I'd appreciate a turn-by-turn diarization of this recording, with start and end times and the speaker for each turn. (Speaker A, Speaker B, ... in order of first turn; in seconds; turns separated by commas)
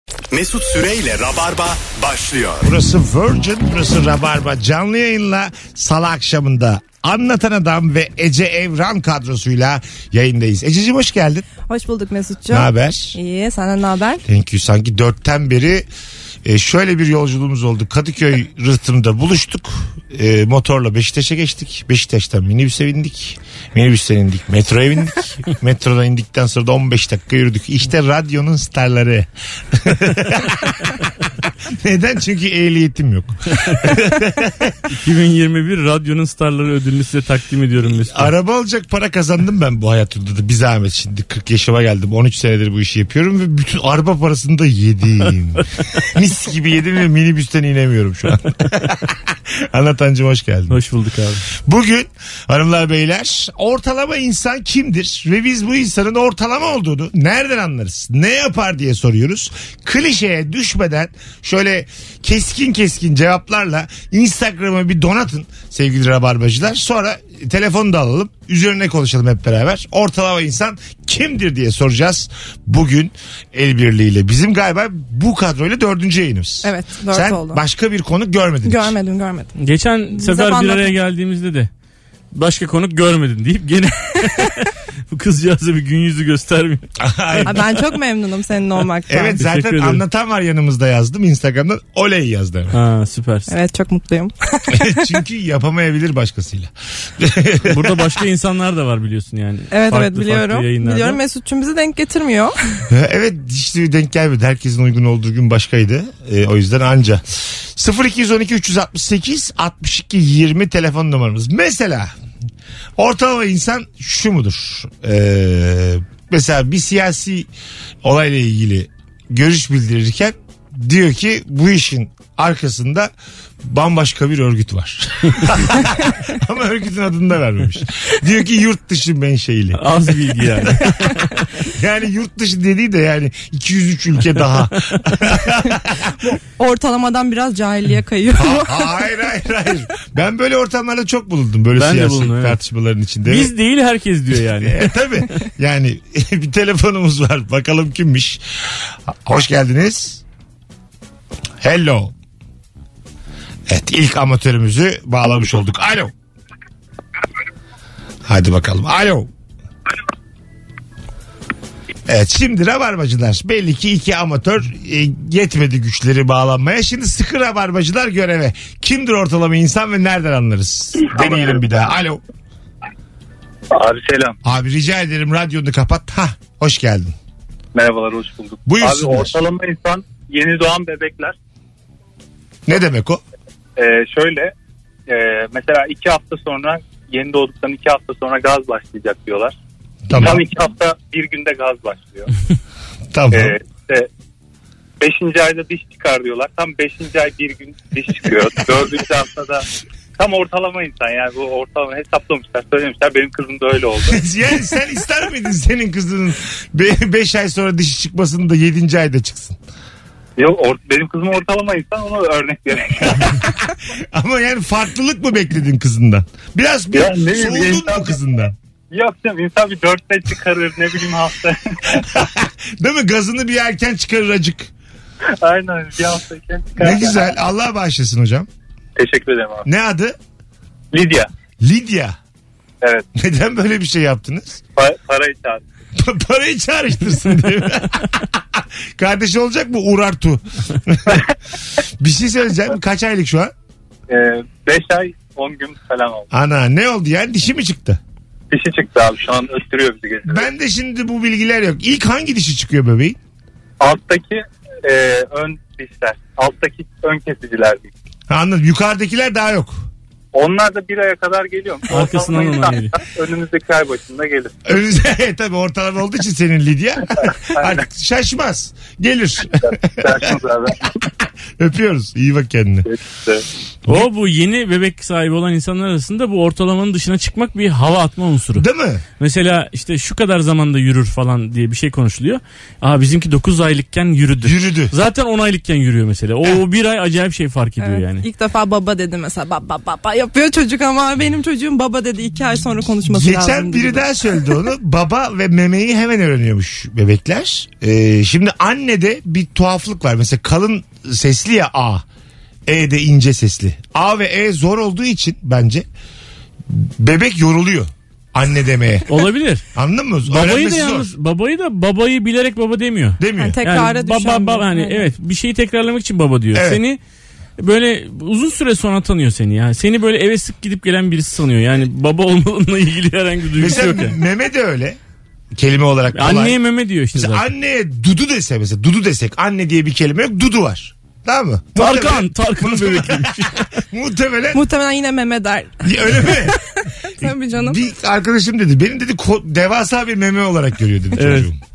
Speaker A: 0.3-2.7, Speaker B: 2.6-11.5, Speaker C: 11.7-14.2, Speaker B: 12.5-13.2, Speaker B: 14.2-15.8, Speaker B: 16.4-30.9, Speaker B: 31.6-34.7, Speaker D: 34.9-38.3, Speaker B: 37.9-50.8, Speaker D: 50.7-51.4, Speaker B: 51.5-78.9, Speaker C: 76.6-77.6, Speaker C: 78.6-79.5, Speaker D: 79.5-81.7, Speaker C: 80.1-80.9, Speaker D: 82.3-87.7, Speaker B: 87.0-87.6, Speaker C: 87.5-89.4, Speaker B: 89.1-92.8, Speaker D: 89.4-90.0, Speaker D: 92.7-93.5, Speaker C: 93.5-95.0, Speaker B: 94.7-98.0, Speaker D: 97.6-101.2, Speaker C: 99.7-102.8, Speaker B: 102.9-107.2, Speaker B: 107.7-112.1, Speaker B: 113.0-117.5, Speaker B: 118.0-123.1, Speaker B: 123.6-129.9, Speaker D: 129.8-131.5, Speaker B: 130.6-136.2, Speaker C: 136.6-138.9, Speaker B: 138.3-143.5, Speaker D: 141.8-142.6, Speaker D: 143.2-144.9, Speaker B: 144.6-148.4, Speaker B: 149.2-150.2, Speaker B: 151.6-152.1, Speaker B: 153.7-156.1, Speaker B: 158.2-159.3, Speaker B: 162.1-172.2, Speaker E: 171.2-171.4, Speaker E: 173.7-174.3, Speaker B: 174.4-177.1, Speaker E: 177.7-181.3, Speaker B: 178.7-179.4, Speaker B: 182.7-183.2, Speaker E: 183.8-184.5, Speaker E: 185.1-189.5, Speaker B: 190.1-190.4, Speaker E: 190.2-192.3, Speaker B: 193.1-193.6, Speaker E: 193.3-194.1, Speaker E: 195.0-199.6, Speaker E: 200.2-204.2, Speaker B: 204.1-209.6, Speaker E: 210.4-213.3, Speaker B: 213.2-218.5, Speaker E: 216.9-218.1, Speaker E: 218.9-222.1, Speaker B: 222.1-224.7, Speaker E: 225.3-227.2, Speaker B: 226.8-228.5, Speaker E: 228.9-229.7, Speaker B: 229.6-230.2, Speaker E: 230.9-231.3, Speaker B: 231.6-232.2, Speaker B: 233.1-234.6, Speaker E: 234.8-235.6, Speaker B: 235.9-241.2, Speaker B: 242.0-243.5, Speaker E: 244.1-246.3, Speaker B: 246.3-248.0, Speaker E: 248.5-250.5, Speaker B: 250.2-253.2, Speaker E: 253.8-257.9, Speaker B: 258.3-259.9, Speaker E: 260.3-264.6, Speaker D: 261.9-262.9, Speaker B: 264.6-270.3, Speaker E: 269.6-270.9, Speaker B: 271.6-272.9, Speaker E: 272.9-273.4, Speaker D: 273.9-278.6, Speaker B: 278.6-279.0, Speaker D: 279.2-288.2, Speaker B: 284.4-284.9, Speaker C: 287.8-294.3, Speaker B: 293.1-302.0, Speaker B: 302.6-305.9, Speaker B: 306.7-309.1, Speaker D: 309.1-309.6, Speaker B: 309.7-311.1, Speaker D: 310.3-317.0, Speaker B: 313.2-313.6, Speaker C: 313.4-315.1, Speaker B: 316.5-316.8, Speaker D: 317.6-324.2, Speaker B: 323.6-325.0, Speaker B: 325.5-326.6, Speaker D: 326.1-327.5, Speaker B: 327.1-334.6, Speaker D: 331.8-333.6, Speaker C: 334.5-337.8, Speaker B: 335.8-336.6, Speaker B: 337.2-341.6, Speaker D: 341.2-341.5